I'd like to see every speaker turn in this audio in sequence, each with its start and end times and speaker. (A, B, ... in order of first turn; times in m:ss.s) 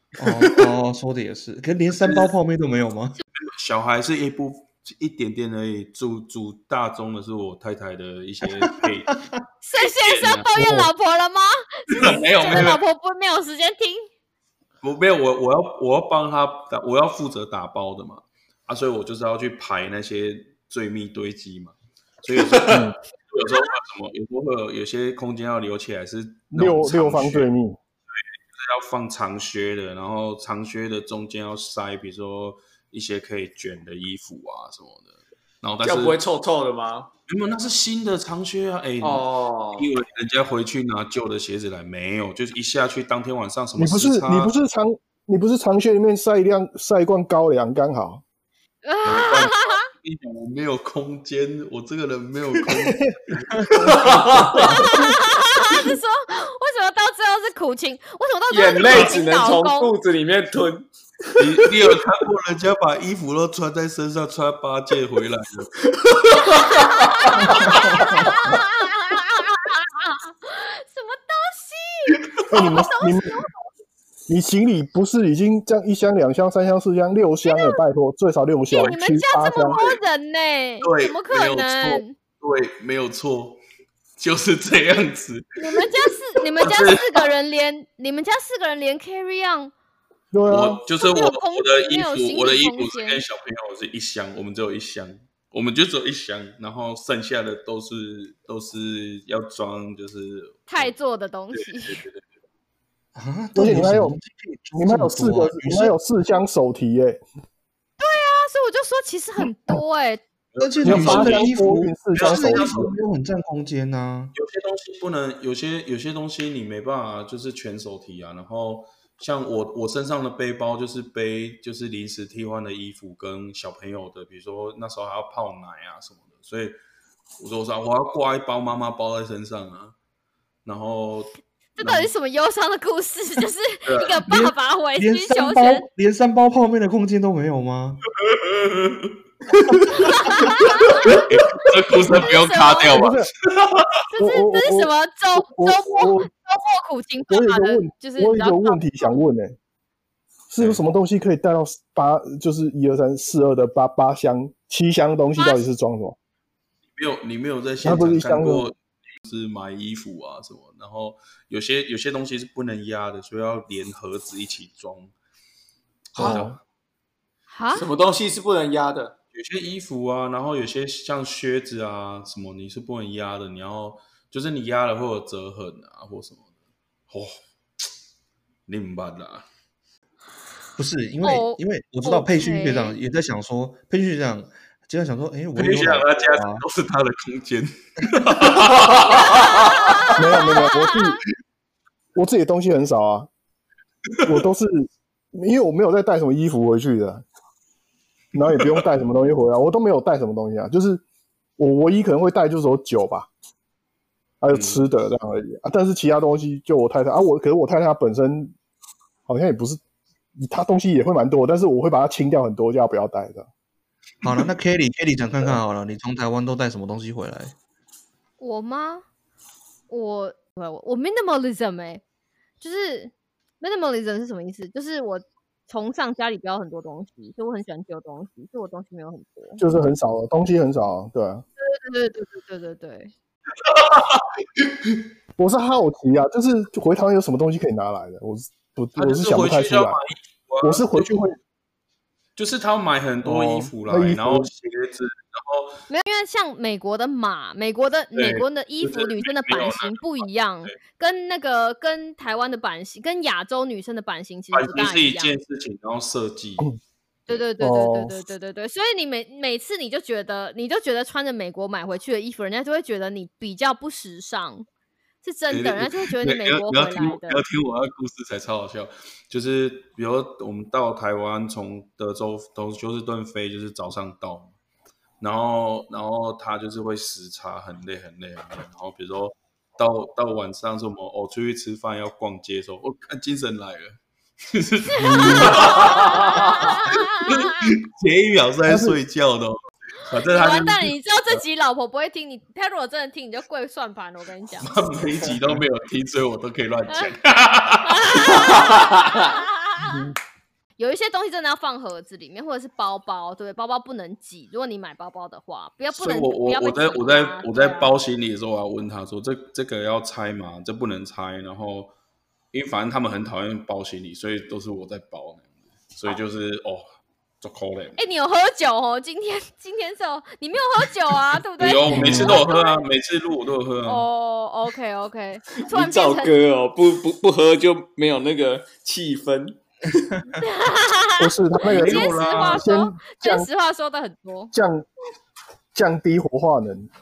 0:00.2-0:03.2 A
0:03.4-0:09.2 B
0:08.4-0:09.3 A
0:09.6-0:14.1 C
0:09.8-0:10.5 B
0:10.6-0:10.9 A
0:11.9-0:12.8 B
0:14.8-0:27.5 B
0:22.3-0:22.8 D
0:22.7-0:23.0 E
0:26.5-0:27.8 E
0:28.5-0:36.2 B
0:35.8-0:37.1 D
0:37.3-0:44.5 B
0:39.0-0:39.9 D
0:43.8-0:48.2 E
0:48.8-0:49.9 C
0:49.0-0:54.9 B
0:52.8-0:53.1 E
0:53.6-0:54.0 A
0:53.8-0:54.8 D
0:54.7-0:59.9 C
0:58.5-1:01.7 D
1:01.4-1:05.8 B
1:06.0-1:08.3 D
1:06.4-1:13.7 C
1:07.5-1:08.3 B
1:12.5-1:13.4 E
1:14.3-1:19.8 E
1:17.4-1:17.8 C
1:18.7-1:22.1 C
1:19.7-1:20.0 B
1:20.8-1:23.6 B
1:24.2-1:27.2 B
1:25.6-1:29.7 C
1:30.3-1:30.8 E
1:30.5-1:40.9 B
1:31.0-1:33.2 C
1:40.7-1:42.0 C
1:41.5-1:42.3 B
1:43.1-1:46.0 A
1:43.5-1:44.2 E
1:44.8-1:47.2 E
1:48.0-1:50.2 C
1:50.5-1:51.5 B
1:50.6-1:54.3 A
1:50.8-1:52.9 E
1:52.1-1:52.9 B
1:54.3-2:06.8 B
2:07.4-2:09.9 B
2:10.6-2:12.0 B
2:11.8-2:15.8 C
2:13.8-2:14.2 B
2:14.3-2:18.0 A
2:18.2-2:19.1 B
2:19.9-2:23.0 C
2:20.9-2:24.0 B
2:22.9-2:23.3 E
2:24.1-2:29.2 C
2:24.2-2:26.3 E
2:27.3-2:29.6 E
2:30.5-2:36.2 E
2:30.6-2:30.8 B
2:35.4-2:35.7 C
2:37.0-2:45.1 B
2:37.8-2:38.7 E
2:46.1-2:46.6 B
2:46.2-2:46.5 A
2:47.5-2:47.9 C
2:47.7-2:49.1 D
2:49.3-2:56.5 B
2:57.1-2:57.4 B
2:58.7-2:59.4 B
3:00.8-3:06.6 A
3:01.2-3:03.0 C
3:05.6-3:10.1 B
3:09.2-3:11.2 C
3:10.2-3:11.2 E
3:12.1-3:13.3 E
3:14.2-3:17.2 E
3:18.3-3:21.0 E
3:18.6-3:18.8 B
3:21.6-3:23.3 E
3:24.4-3:28.5 E
3:24.5-3:24.8 B
3:29.3-3:29.8 E
3:30.4-3:33.5 E
3:34.2-3:37.5 A
3:38.4-3:39.0 C
3:39.9-3:42.0 C
3:42.6-3:49.6 C
3:49.6-3:51.4 E
3:51.6-3:53.1 C
3:53.6-3:55.0 B
3:55.4-4:00.0 E
3:59.0-4:01.2 B
4:00.6-4:01.4 E
4:02.4-4:05.8 B
4:03.2-4:04.5 E
4:05.9-4:15.4 C
4:08.1-4:10.7 B
4:14.5-4:16.7 B
4:17.3-4:24.6 C
4:17.6-4:18.1 E
4:25.2-4:27.4 C
4:25.5-4:34.5 B
4:35.2-4:51.4 B
4:44.8-4:47.7 C
4:45.0-4:45.6 E
4:46.0-4:46.5 D
4:48.6-4:49.0 E
4:50.3-4:54.8 C
4:54.6-4:58.5 B
4:57.8-5:00.1 C
4:58.4-4:59.2 D
5:00.8-5:08.0 C
5:05.9-5:11.9 B
5:12.5-5:16.8 B
5:17.4-5:18.0 B
5:18.0-5:22.8 C
5:21.6-5:24.0 B
5:23.8-5:26.4 C
5:25.6-5:30.1 D
5:30.3-5:34.5 C
5:31.2-5:33.5 E
5:31.6-5:32.7 B
5:34.5-5:34.9 E
5:35.7-5:36.9 E